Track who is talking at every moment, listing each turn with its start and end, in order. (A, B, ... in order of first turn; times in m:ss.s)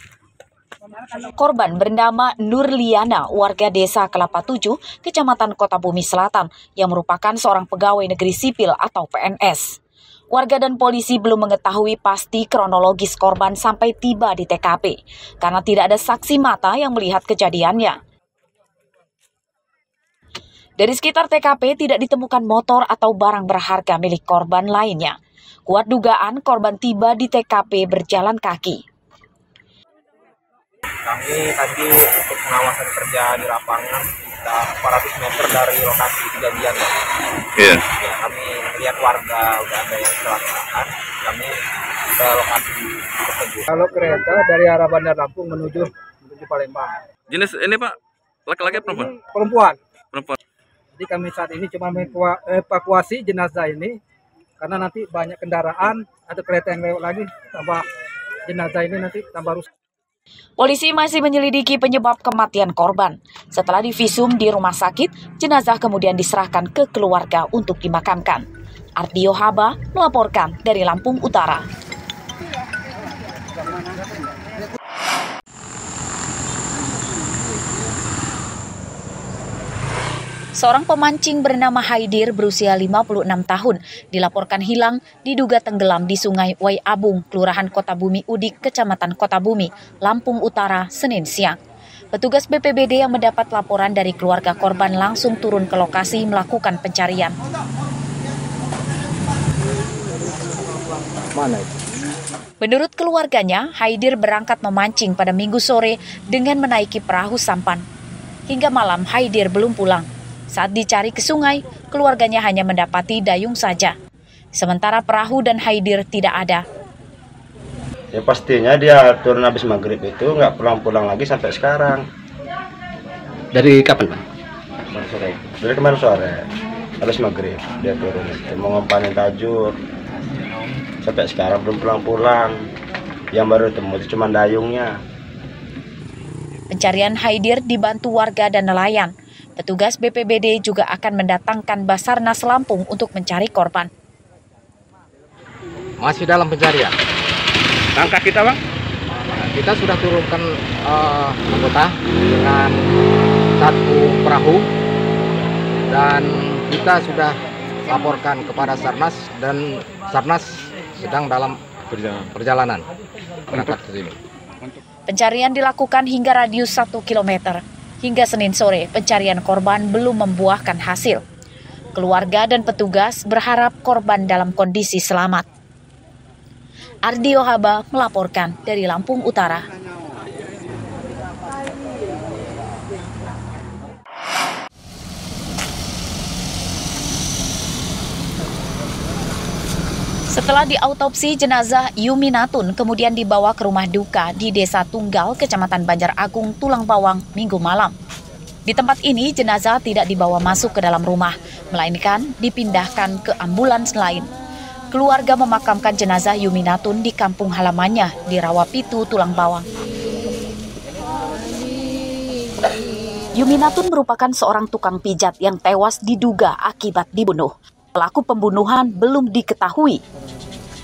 0:01.1-0:09.8 A
0:10.3-0:18.0 A
0:20.8-0:25.2 A
0:25.7-0:28.8 A
0:31.1-0:37.0 B
0:37.6-0:37.8 C
0:37.8-0:41.6 B
0:42.2-0:44.3 B
0:43.7-0:46.9 D
0:47.3-0:48.0 C
0:48.5-0:49.1 C
0:48.7-0:49.8 D
0:51.0-0:54.0 D
0:54.6-0:57.8 D
0:58.5-0:59.6 D
1:00.6-1:08.4 A
1:09.0-1:11.6 A
1:20.6-1:31.6 A
1:32.1-1:37.4 A
1:42.6-1:47.8 A
1:48.5-1:53.9 A
1:54.6-1:56.6 A
1:58.1-2:02.0 E
2:03.6-2:04.2 E
2:04.9-2:06.5 E
2:07.0-2:09.8 E
2:11.0-2:12.6 E
2:13.3-2:15.0 E
2:16.7-2:23.9 A
2:26.0-2:26.9 F
2:28.0-2:28.6 C
2:29.3-2:33.0 F
2:33.6-2:34.7 F
2:35.9-2:42.9 F
2:43.5-2:44.2 F
2:45.1-2:51.2 A
2:51.9-2:55.5 A
2:57.0-2:59.7 A
3:10.3-3:17.9 A
3:18.7-3:24.3 A
3:24.9-3:29.7 A
3:33.3-3:40.0 A